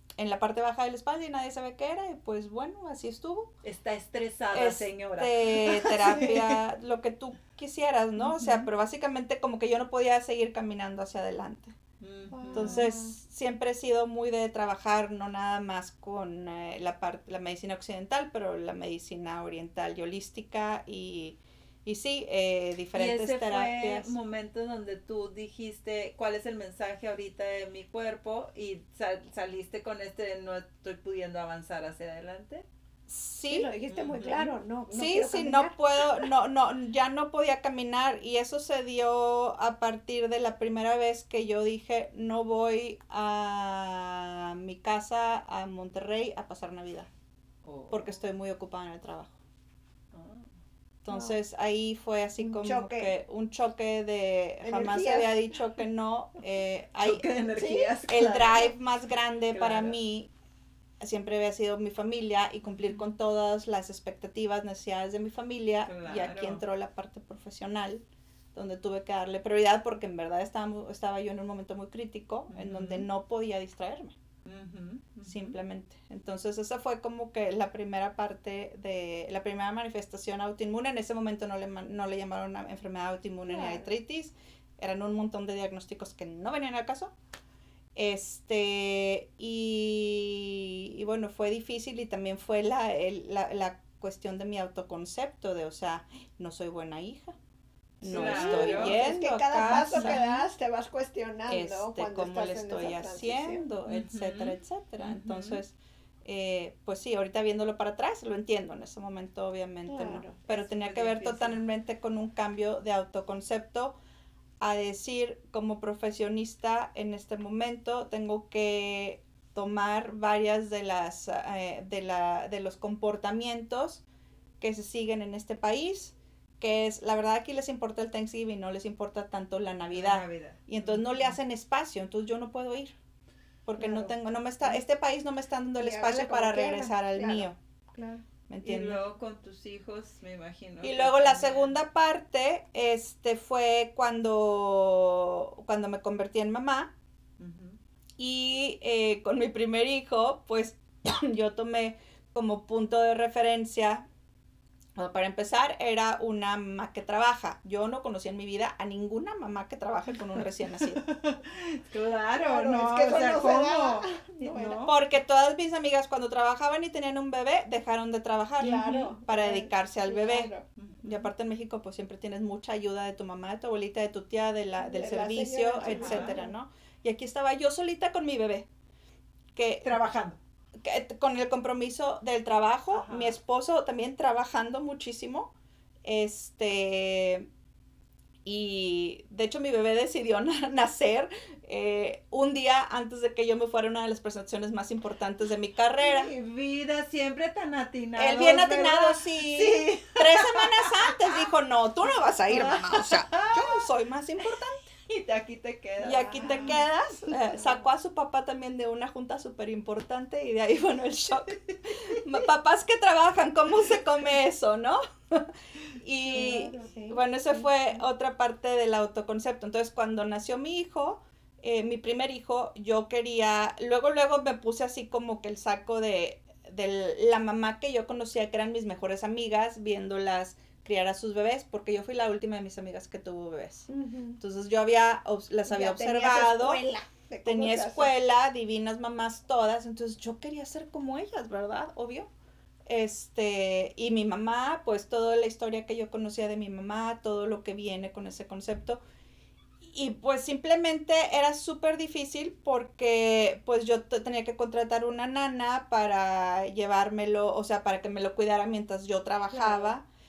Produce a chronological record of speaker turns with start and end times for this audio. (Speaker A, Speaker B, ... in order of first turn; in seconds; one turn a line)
Speaker A: 0.2-3.5
Speaker B: 3.6-6.6
Speaker A: 4.5-11.8
Speaker C: 6.1-6.3
Speaker B: 8.2-8.7
Speaker B: 12.0-12.9
Speaker C: 12.3-13.1
Speaker A: 12.5-24.1
Speaker B: 22.9-32.6
Speaker A: 33.1-33.7
Speaker C: 33.5-36.2
Speaker B: 33.9-34.5
Speaker A: 34.9-47.1
Speaker B: 47.6-48.1
Speaker A: 47.9-49.3
Speaker B: 50.1-50.5
Speaker A: 51.0-57.3
Speaker C: 52.4-53.1
Speaker C: 54.6-55.4
Speaker B: 57.0-58.7
Speaker C: 57.5-58.0
Speaker A: 58.1-60.3
Speaker B: 59.5-60.0
Speaker A: 61.0-68.0
Speaker B: 62.6-63.0
Speaker B: 65.9-66.6
Speaker A: 68.5-74.2
Speaker B: 72.5-73.1
Speaker B: 74.4-75.5
Speaker A: 75.2-87.1
Speaker C: 83.5-83.9
Speaker A: 87.9-97.3
Speaker A: 98.0-100.2
Speaker C: 98.0-103.6
Speaker B: 98.0-99.0
Speaker B: 99.7-100.5
Speaker A: 101.5-114.0
Speaker B: 103.9-105.6
Speaker C: 109.9-110.4
Speaker B: 110.5-111.6
Speaker A: 114.6-124.0
Speaker A: 124.6-132.9
Speaker B: 129.9-131.4
Speaker A: 133.6-137.6
Speaker C: 133.8-134.1
Speaker C: 135.8-138.2
Speaker A: 138.5-139.0
Speaker B: 138.6-141.8
Speaker A: 140.8-146.9
Speaker B: 147.4-147.8
Speaker A: 148.2-154.1
Speaker A: 154.9-161.0
Speaker B: 160.4-164.9
Speaker C: 162.4-164.8
Speaker A: 164.9-170.5
Speaker C: 168.6-170.6
Speaker B: 168.6-169.1
Speaker B: 170.8-171.3
Speaker A: 171.0-178.7
Speaker C: 174.8-176.5
Speaker B: 175.9-176.3
Speaker A: 179.5-180.0
Speaker B: 179.8-180.4
Speaker A: 180.8-185.5
Speaker B: 182.9-183.4
Speaker A: 186.0-187.4
Speaker A: 188.4-196.3
Speaker B: 196.0-201.5
Speaker A: 198.2-204.8
Speaker B: 202.5-203.9
Speaker B: 204.4-206.8
Speaker A: 206.0-215.5
Speaker C: 206.5-206.7
Speaker B: 211.5-212.2
Speaker A: 216.0-233.9
Speaker C: 216.3-217.7
Speaker C: 233.9-234.4
Speaker A: 234.4-236.8
Speaker C: 235.7-238.1
Speaker A: 237.4-242.3
Speaker A: 242.8-249.0
Speaker A: 249.8-260.0
Speaker C: 259.5-259.9